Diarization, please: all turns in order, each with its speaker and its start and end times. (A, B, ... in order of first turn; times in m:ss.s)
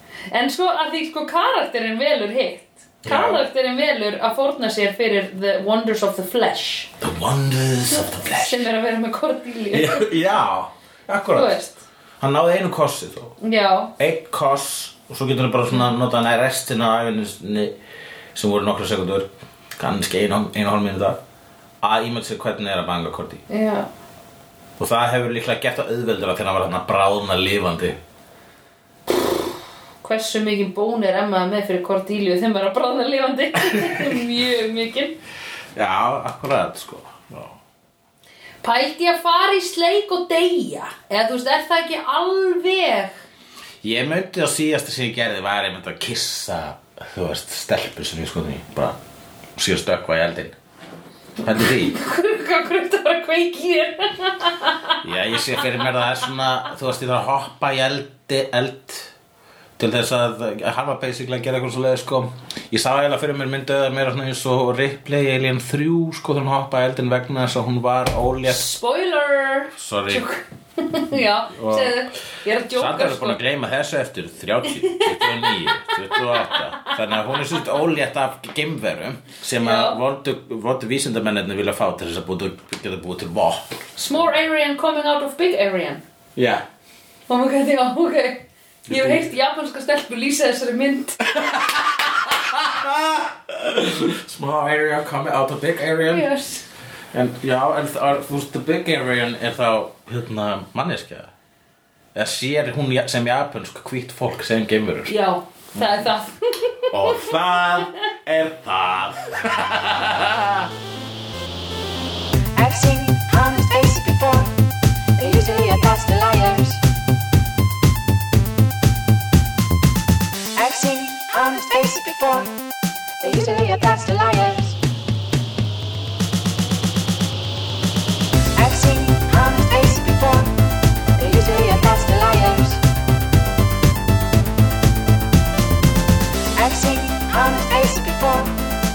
0:00.3-0:06.9 A
0:03.0-0:03.4 B
0:07.0-0:08.6 B
0:07.9-0:10.1 A
0:09.7-0:11.6 B
0:11.3-0:11.8 A
0:12.2-0:13.4 B
0:13.4-0:13.9 A
0:14.0-0:17.8 B
0:18.3-0:21.2 B
0:21.8-0:23.4 B
0:23.5-0:23.9 A
0:24.8-0:28.0 B
0:30.0-0:35.2 A
0:33.7-0:34.2 B
0:35.7-0:37.6 B
0:38.6-0:43.1 A
0:43.8-0:49.0 B
0:49.6-0:50.6 B
0:51.4-0:52.0 B
0:51.6-0:55.8 A
0:55.0-0:59.1 B
0:59.8-1:08.6 B
1:08.4-1:13.4 A
1:09.7-1:10.2 B
1:11.5-1:12.0 B
1:12.7-1:24.3 B
1:14.8-1:16.9 A
1:19.6-1:20.0 A
1:24.0-1:26.0 A
1:26.3-1:26.6 B
1:27.3-1:31.4 A
1:28.9-1:29.3 B
1:31.3-1:36.3 B
1:36.1-1:36.6 A
1:37.1-1:41.3 B
1:42.1-1:45.1 B
1:45.0-1:47.8 A
1:45.8-1:46.0 B
1:46.9-1:50.7 B
1:52.6-1:54.5 C
1:55.2-1:56.8 C
2:00.6-2:02.5 C
2:03.2-2:04.8 C
2:08.6-2:10.5 C
2:11.2-2:12.8 C
2:16.6-2:18.5 C